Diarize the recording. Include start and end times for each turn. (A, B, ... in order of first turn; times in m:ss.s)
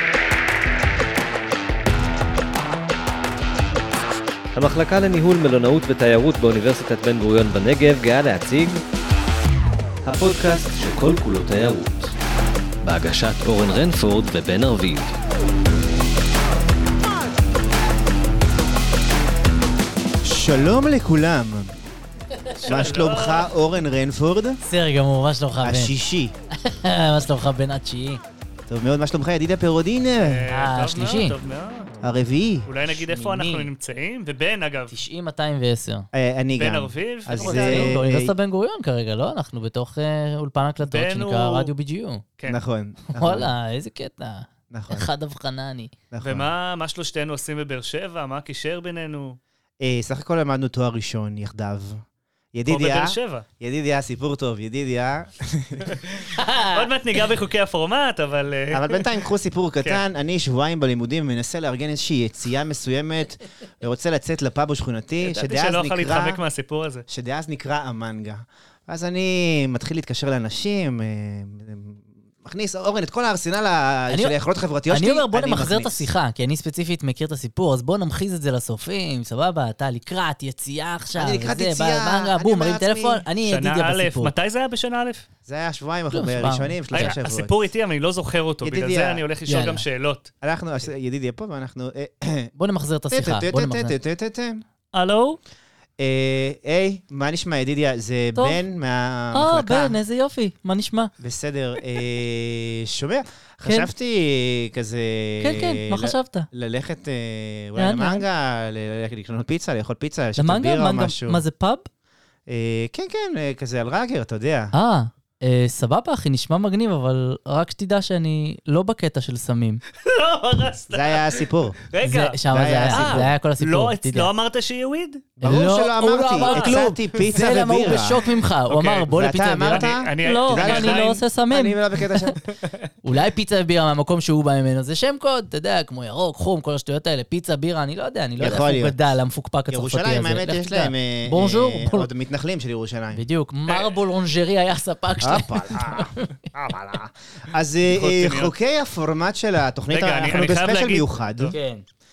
0:04.5-0:08.8 A
0:10.0-0:12.1 A
0:12.8-0:15.1 A
0:20.2-0:21.7 B
0:22.4-0:22.9 C
0:22.6-0:23.5 D
0:22.6-0:24.6 B
0:24.6-0:26.0 C
0:25.6-0:26.3 B
0:26.6-0:28.2 C
0:28.7-0:30.4 B
0:30.2-0:32.0 D
0:30.5-0:31.4 C
0:32.0-0:32.7 B
0:32.6-0:34.9 D
0:32.9-0:33.7 C
0:34.9-0:36.1 C
0:36.1-0:38.3 B
0:36.6-0:38.0 D
0:37.4-0:42.2 C
0:40.8-0:41.7 D
0:42.5-0:43.5 B
0:43.1-0:45.9 C
0:44.7-0:45.1 B
0:46.1-0:46.5 B
0:46.2-0:49.4 D
0:49.8-0:52.0 B
0:52.5-0:56.0 B
0:52.7-0:53.4 D
0:56.3-0:57.2 C
0:56.7-0:59.3 D
0:58.7-1:06.4 B
1:05.2-1:07.0 D
1:07.1-1:16.1 B
1:14.1-1:14.3 C
1:14.9-1:24.3 C
1:21.2-1:23.2 B
1:23.4-1:25.2 D
1:25.5-1:27.5 B
1:26.1-1:27.2 C
1:26.9-1:30.3 D
1:28.6-1:29.2 B
1:29.5-1:29.8 C
1:30.4-1:32.5 B
1:32.6-1:33.9 C
1:33.1-1:34.6 B
1:34.9-1:35.4 D
1:36.0-1:40.0 B
1:38.3-1:38.6 C
1:39.3-1:41.1 C
1:41.2-1:51.4 B
1:43.6-1:43.9 C
1:45.4-1:46.5 C
1:47.8-1:48.2 C
1:50.4-1:51.9 C
1:52.5-1:54.7 B
1:54.7-1:59.8 C
2:00.0-2:05.3 D
2:00.9-2:01.8 B
2:02.0-2:04.3 C
2:02.5-2:03.3 B
2:05.4-2:08.3 B
2:05.4-2:12.1 C
2:06.3-2:07.3 D
2:08.7-2:09.1 D
2:09.1-2:12.4 B
2:09.6-2:11.2 D
2:13.0-2:22.1 C
2:18.4-2:19.0 B
2:19.7-2:23.2 B
2:23.1-2:26.5 C
2:25.2-2:26.1 B
2:26.5-2:26.8 D
2:26.7-2:31.6 B
2:27.9-2:28.5 D
2:29.9-2:31.6 D
2:31.5-2:31.8 C